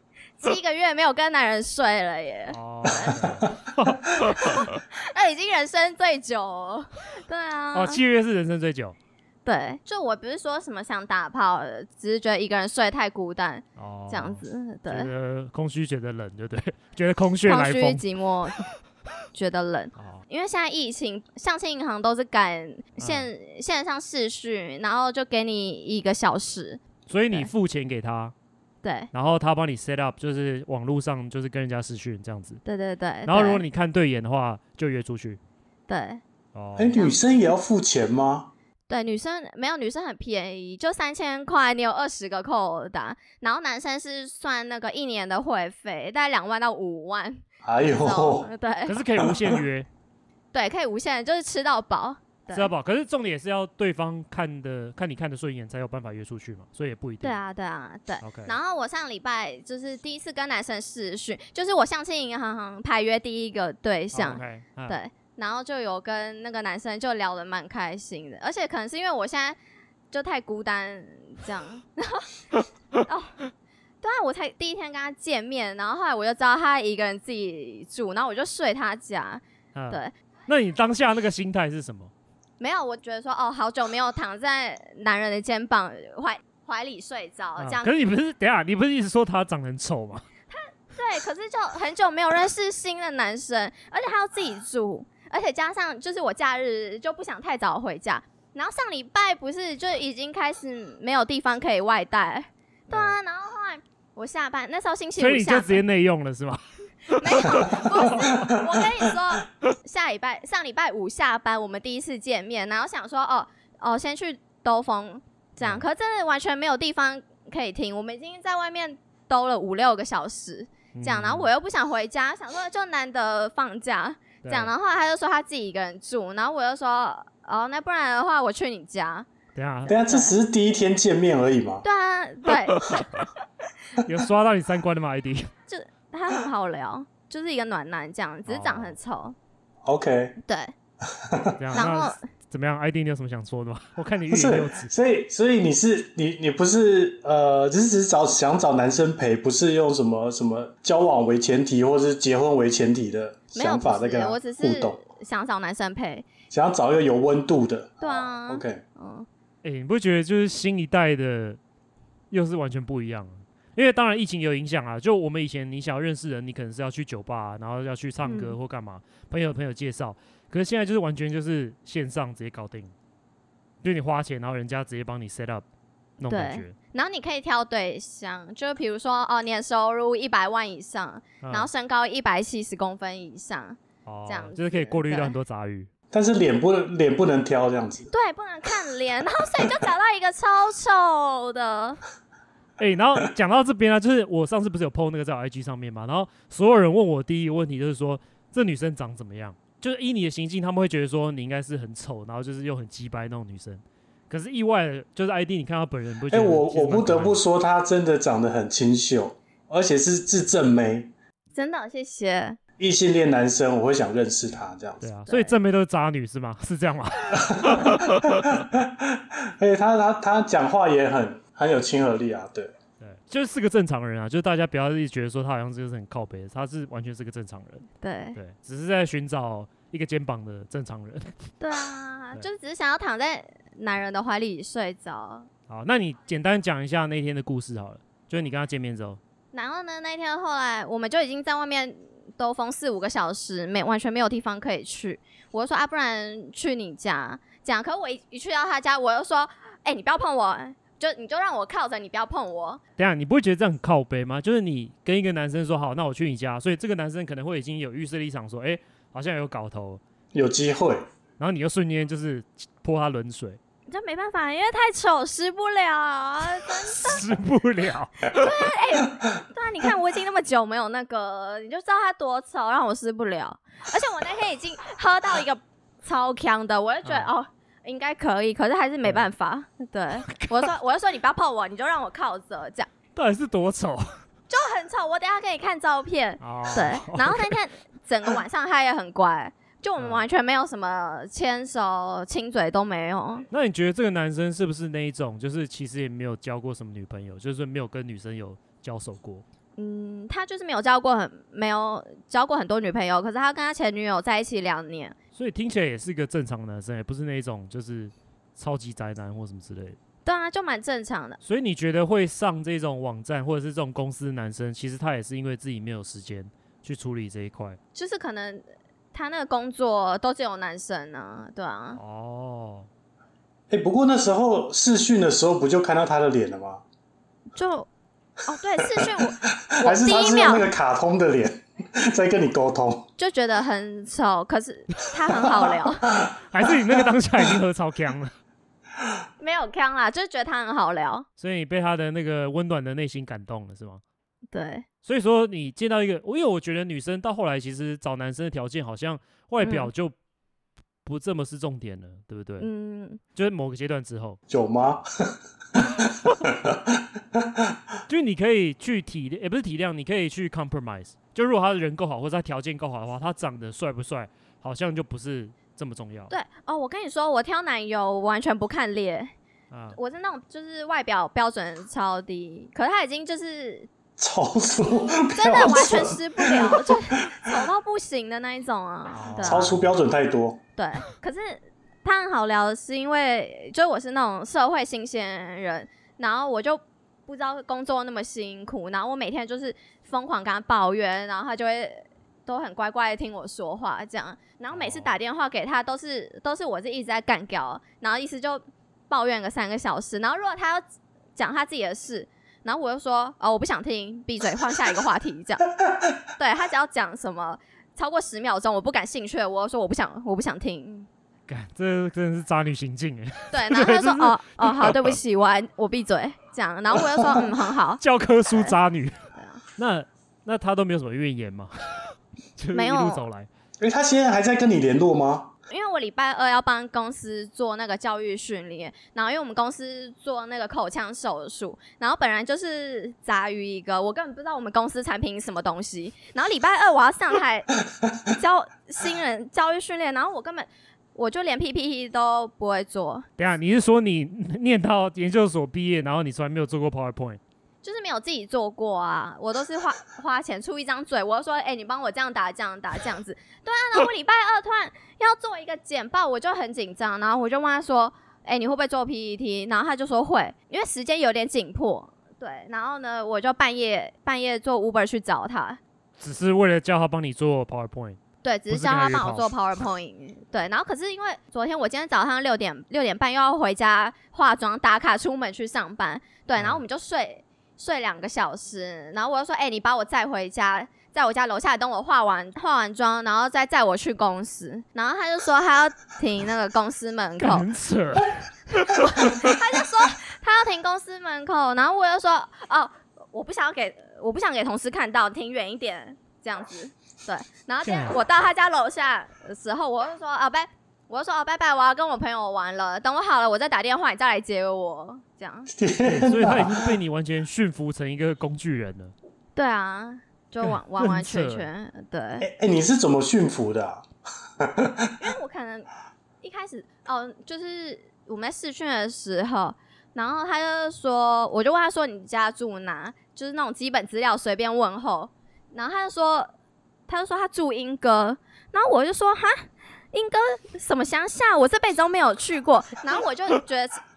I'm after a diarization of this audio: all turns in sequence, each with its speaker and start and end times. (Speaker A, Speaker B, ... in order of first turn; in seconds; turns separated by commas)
Speaker A: 0.4-3.3, Speaker B: 2.5-4.7, Speaker A: 4.2-8.0, Speaker B: 7.7-8.9, Speaker A: 9.4-15.1, Speaker B: 13.8-18.0, Speaker A: 17.4-18.6, Speaker A: 19.3-27.5, Speaker B: 19.9-20.2, Speaker B: 23.0-23.3, Speaker B: 27.1-28.3, Speaker A: 28.8-29.1, Speaker B: 29.1-32.6, Speaker A: 32.6-33.6, Speaker B: 33.2-35.4, Speaker A: 35.9-36.2, Speaker B: 36.5-37.0, Speaker C: 36.8-38.5, Speaker A: 38.9-49.0, Speaker C: 47.6-48.5, Speaker B: 48.9-49.9, Speaker C: 49.2-49.6, Speaker A: 50.5-52.7, Speaker B: 52.5-57.4, Speaker A: 57.2-69.6, Speaker B: 58.2-58.5, Speaker B: 64.1-65.0, Speaker A: 70.1-72.3, Speaker A: 73.0-73.4, Speaker A: 74.0-80.1, Speaker B: 79.7-82.1, Speaker A: 82.6-87.9, Speaker B: 87.6-90.2, Speaker A: 90.5-105.8, Speaker B: 102.9-103.2, Speaker B: 105.2-108.3, Speaker A: 107.1-129.3, Speaker B: 120.9-121.5, Speaker B: 124.4-124.7, Speaker B: 129.5-129.9, Speaker A: 129.9-130.3, Speaker C: 129.9-131.8, Speaker A: 131.8-133.2, Speaker B: 134.0-135.5, Speaker A: 135.7-139.3, Speaker B: 138.5-138.9, Speaker C: 139.8-140.3, Speaker A: 140.4-140.7, Speaker C: 141.1-141.8, Speaker B: 141.6-144.9, Speaker A: 141.7-142.2, Speaker C: 144.3-155.0, Speaker A: 153.5-156.3, Speaker C: 156.5-158.8, Speaker A: 158.0-159.3, Speaker B: 159.6-161.6, Speaker B: 162.3-172.9, Speaker A: 168.2-168.6, Speaker B: 173.8-175.6, Speaker B: 176.2-176.8, Speaker A: 176.3-185.3, Speaker B: 181.4-181.7, Speaker B: 184.1-185.9, Speaker C: 186.1-188.1, Speaker A: 188.1-192.0, Speaker B: 192.8-207.4, Speaker C: 206.3-211.1, Speaker A: 211.5-212.6, Speaker C: 212.8-215.0, Speaker B: 215.0-218.1, Speaker A: 215.3-215.5, Speaker C: 217.5-222.7, Speaker B: 223.0-231.5, Speaker A: 228.0-228.4, Speaker A: 231.6-235.5, Speaker B: 235.7-239.2, Speaker A: 239.5-252.8, Speaker B: 253.0-260.0, Speaker C: 260.3-261.0, Speaker B: 261.4-263.6, Speaker A: 263.9-267.3, Speaker B: 266.8-268.4, Speaker A: 268.3-282.9, Speaker B: 277.0-277.3, Speaker B: 280.3-280.7, Speaker B: 283.1-284.1, Speaker A: 284.5-293.4, Speaker B: 286.4-287.5, Speaker B: 293.5-299.4, Speaker A: 299.8-305.1, Speaker B: 305.3-310.0, Speaker A: 310.2-311.4, Speaker B: 311.4-317.8, Speaker A: 317.9-322.0, Speaker B: 321.9-322.9, Speaker C: 323.7-326.8, Speaker A: 327.5-327.9, Speaker A: 328.4-330.7, Speaker C: 328.9-333.1, Speaker A: 333.2-336.0, Speaker C: 336.1-337.0, Speaker B: 336.5-338.3, Speaker A: 339.4-341.2, Speaker B: 341.4-344.0, Speaker A: 344.5-344.9, Speaker B: 345.0-350.1, Speaker A: 349.6-349.9, Speaker B: 351.0-352.7, Speaker A: 352.6-353.2, Speaker B: 353.3-354.4, Speaker C: 354.5-355.4, Speaker C: 356.0-357.8, Speaker B: 358.1-366.3, Speaker A: 366.3-369.3, Speaker B: 369.7-370.0, Speaker A: 369.9-373.9, Speaker C: 374.2-377.6, Speaker A: 375.4-379.7, Speaker B: 379.1-379.9, Speaker C: 379.4-380.6, Speaker A: 380.8-400.8, Speaker B: 394.7-395.1, Speaker A: 401.4-405.6, Speaker A: 406.4-411.1, Speaker B: 411.5-415.2, Speaker A: 413.5-418.7, Speaker B: 418.0-419.1, Speaker A: 419.3-419.6, Speaker B: 419.8-423.5, Speaker A: 422.7-423.2, Speaker C: 423.8-425.5, Speaker A: 425.7-443.3, Speaker B: 443.4-447.4, Speaker A: 447.8-465.8, Speaker B: 466.2-469.5, Speaker A: 468.4-487.7, Speaker B: 487.4-489.4, Speaker A: 488.9-505.7, Speaker B: 497.8-498.2, Speaker C: 505.7-506.9, Speaker B: 506.0-509.1, Speaker A: 509.6-512.5, Speaker B: 510.6-511.7, Speaker C: 512.4-514.0, Speaker C: 514.6-515.1, Speaker A: 515.2-515.9, Speaker A: 516.4-526.5, Speaker A: 527.1-534.0